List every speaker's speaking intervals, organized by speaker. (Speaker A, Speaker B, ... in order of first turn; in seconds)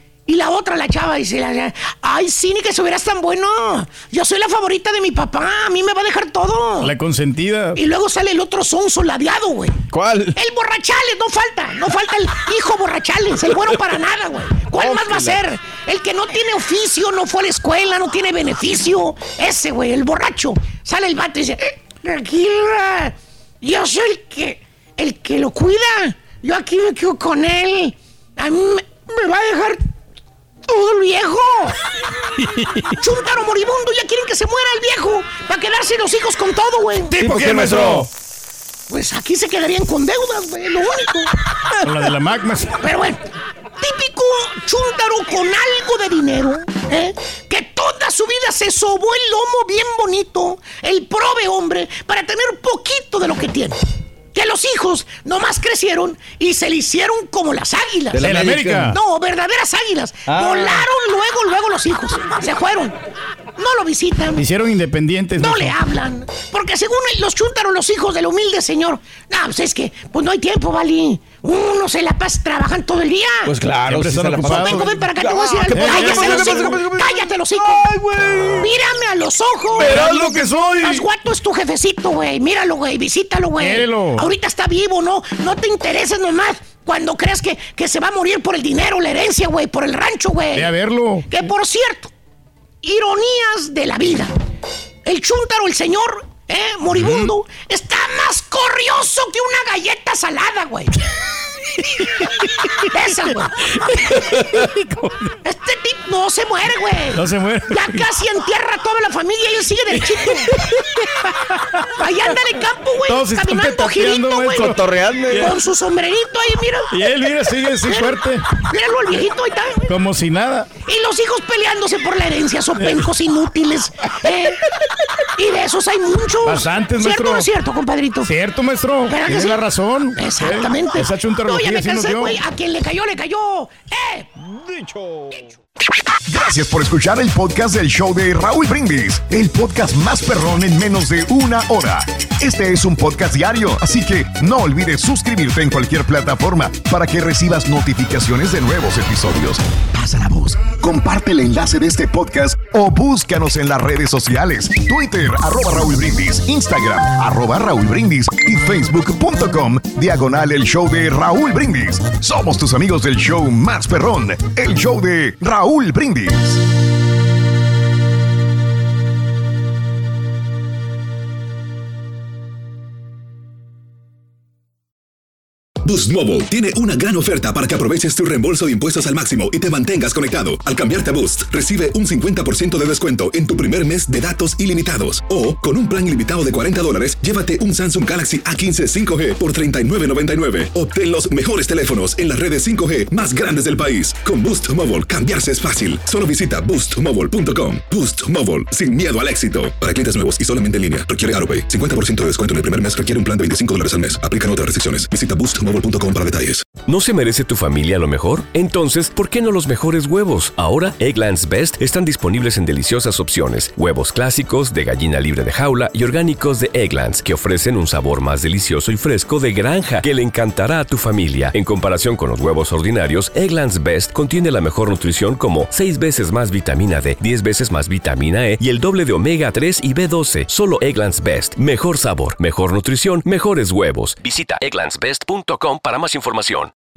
Speaker A: 0.3-6.9, 7.8-9.8, 10.3-29.8, 30.6-31.8, 33.0-37.1, 38.9-41.3, 42.8-43.2, 43.8-53.8, 54.3-58.2, 58.9-63.0, 63.6-64.4, 65.4-73.5, 74.4-77.9, 78.6-90.7, 91.3-92.1, 92.8-94.3, 95.0-100.9, 102.8-104.2, 105.4-110.8, 111.8-114.7, 115.3-117.0, 117.8-120.0, 120.8-124.6, 125.4-128.3, 129.1-134.3
Speaker B: 6.8-7.8, 32.4-32.9, 37.1-38.1, 41.8-42.8, 58.1-59.0, 64.3-65.8, 73.9-74.9, 75.7-76.8, 79.7-81.1, 83.6-84.3, 90.5-91.3, 97.0-97.3, 103.8-105.3, 107.1-108.0, 113.0-115.6, 116.9-118.5, 119.8-120.7, 122.8-123.1, 126.4-127.5, 128.2-132.4
Speaker C: 9.9-10.4, 14.7-15.4, 37.1-38.1, 58.1-59.0, 60.2-60.9, 73.4-78.7, 114.5-115.6, 134.4-135.5
Speaker D: 136.2-166.6
Speaker E: 175.8-206.8
Speaker F: 206.8-236.7